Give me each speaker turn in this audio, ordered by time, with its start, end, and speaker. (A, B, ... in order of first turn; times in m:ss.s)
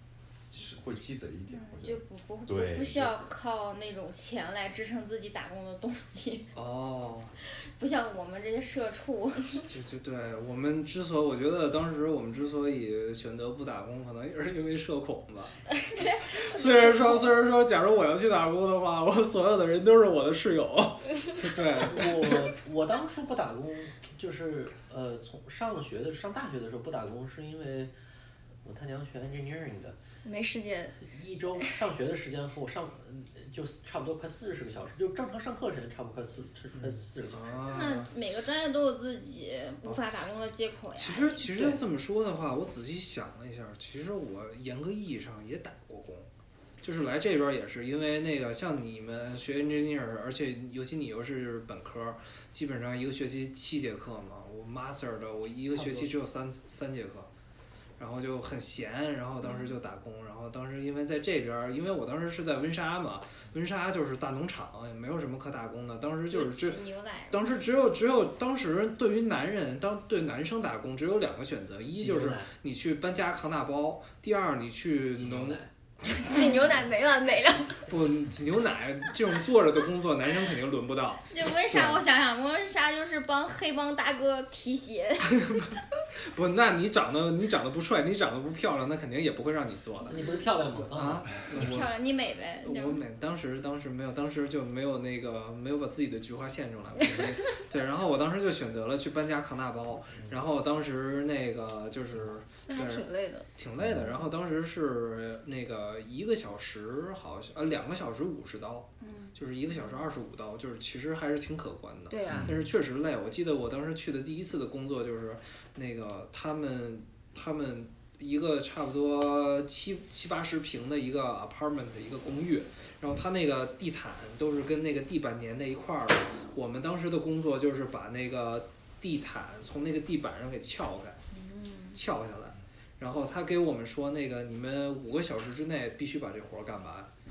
0:00.5-0:03.3 A
0:01.5-0:06.5 B
0:06.5-0:07.3 C
0:07.6-0:09.7 B
0:09.6-0:15.6 C
0:15.8-0:17.2 B
0:16.3-0:22.5 C
0:21.7-0:27.9 D
0:28.6-0:30.0 D
0:30.2-0:31.0 E
0:31.0-0:37.9 D
0:37.3-0:38.1 C
0:37.7-0:41.5 B
0:41.0-0:46.3 C
0:46.8-0:57.3 C
0:55.7-0:56.1 D
0:58.0-1:15.6 C
1:06.3-1:07.5 B
1:11.9-1:12.5 D
1:15.2-1:15.7 D
1:16.2-1:17.8 E
1:17.8-1:22.0 C
1:21.3-1:25.7 B
1:25.3-1:25.8 C
1:26.3-1:30.2 C
1:30.1-1:31.3 D
1:30.9-1:31.9 C
1:31.5-1:33.0 B
1:32.6-2:11.2 C
1:42.7-1:43.5 E
1:43.8-1:44.1 A
1:49.0-1:49.4 B
1:52.1-1:52.5 E
1:52.3-1:52.6 A
2:11.3-2:11.9 B
2:11.9-2:17.1 C